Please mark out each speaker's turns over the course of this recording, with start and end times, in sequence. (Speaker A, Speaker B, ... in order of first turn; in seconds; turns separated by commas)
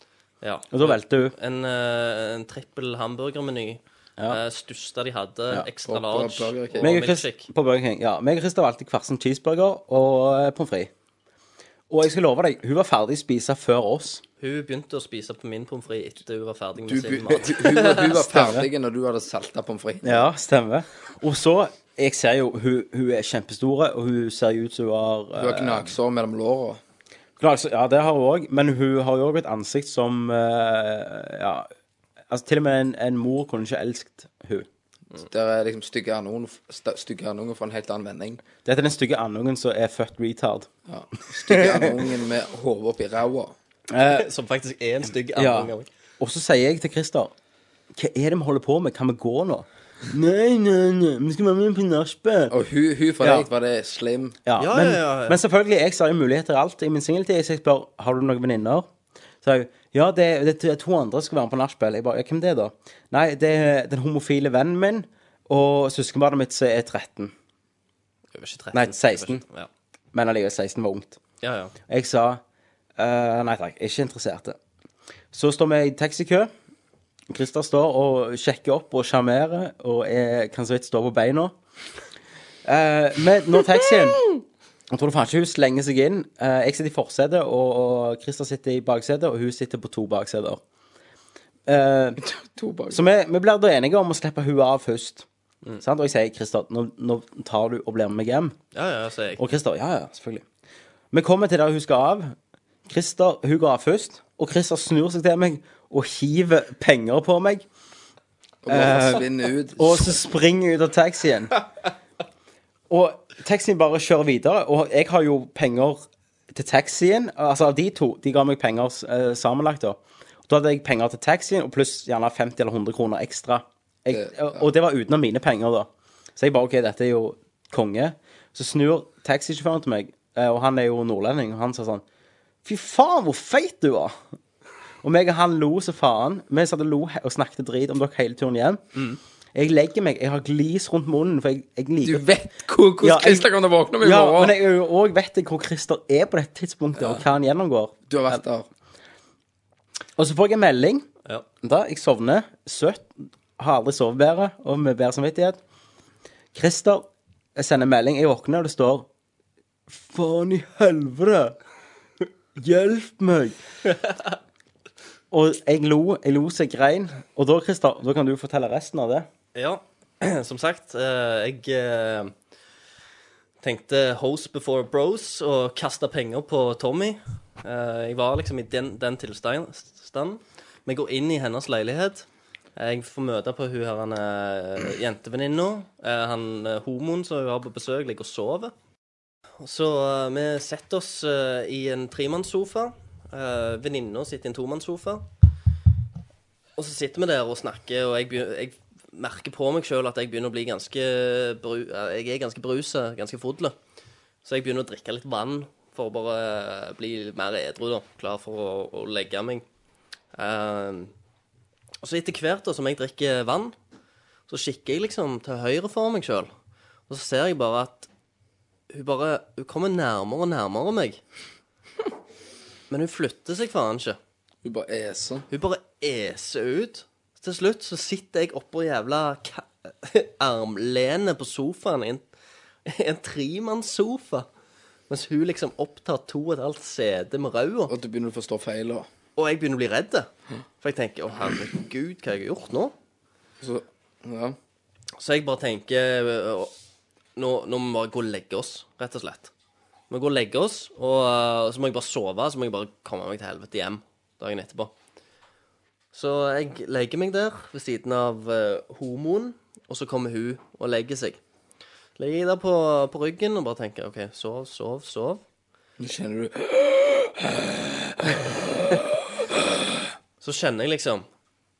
Speaker A: 0.4-7.5, Speaker B: 0.7-1.3, Speaker C: 5.8-6.9, Speaker B: 6.8-10.9, Speaker B: 11.9-14.2, Speaker A: 14.4-18.0, Speaker C: 16.9-20.3, Speaker B: 17.3-18.7, Speaker B: 20.0-25.9, Speaker C: 25.4-26.8, Speaker B: 27.4-31.7, Speaker B: 32.3-34.7, Speaker C: 35.1-38.4, Speaker B: 38.6-40.7, Speaker C: 40.9-43.5, Speaker B: 41.5-42.1, Speaker B: 43.9-44.3, Speaker A: 44.1-45.9, Speaker B: 45.3-47.3, Speaker B: 47.9-52.5, Speaker C: 52.5-54.4, Speaker B: 53.2-53.5, Speaker B: 54.4-58.9, Speaker A: 54.6-55.4, Speaker B: 59.4-67.3, Speaker A: 68.3-69.7, Speaker B: 68.7-69.4, Speaker B: 70.1-71.2, Speaker A: 71.4-71.7, Speaker B: 71.9-72.4, Speaker B: 73.0-74.6, Speaker B: 75.3-76.5, Speaker B: 77.3-81.6, Speaker B: 82.6-84.3, Speaker B: 84.9-90.6, Speaker B: 91.7-92.2, Speaker C: 92.2-93.0, Speaker B: 92.9-95.3, Speaker B: 95.8-98.6, Speaker A: 98.7-99.4, Speaker B: 99.4-100.5, Speaker B: 101.1-102.3, Speaker B: 102.8-107.7, Speaker C: 108.6-110.2, Speaker B: 108.7-109.2, Speaker B: 109.8-111.5, Speaker B: 112.9-132.0, Speaker C: 124.1-124.7, Speaker B: 132.6-134.3, Speaker B: 135.0-138.8, Speaker B: 139.5-142.2, Speaker C: 142.0-144.6, Speaker B: 143.0-148.4, Speaker C: 147.0-147.2, Speaker C: 148.1-148.7, Speaker B: 150.2-151.1, Speaker B: 151.6-155.6, Speaker B: 156.5-159.1, Speaker B: 159.9-161.6, Speaker B: 162.6-163.6, Speaker B: 165.3-169.3, Speaker A: 169.5-172.3, Speaker A: 173.6-188.7, Speaker A: 189.6-195.2, Speaker A: 196.8-203.8, Speaker A: 204.4-209.6, Speaker A: 210.3-211.1, Speaker A: 212.0-213.8, Speaker A: 214.5-216.5, Speaker A: 217.1-218.1, Speaker A: 218.9-221.2, Speaker A: 222.9-224.2, Speaker C: 224.6-225.5, Speaker A: 225.5-232.2, Speaker A: 232.8-234.5, Speaker A: 235.1-237.9, Speaker C: 237.9-239.1, Speaker A: 239.4-240.3, Speaker A: 240.8-242.9, Speaker C: 243.6-244.6, Speaker A: 245.2-246.7, Speaker A: 247.3-249.5, Speaker A: 250.1-254.9, Speaker A: 256.1-261.4, Speaker A: 262.2-265.4, Speaker C: 266.0-269.0, Speaker A: 270.4-271.2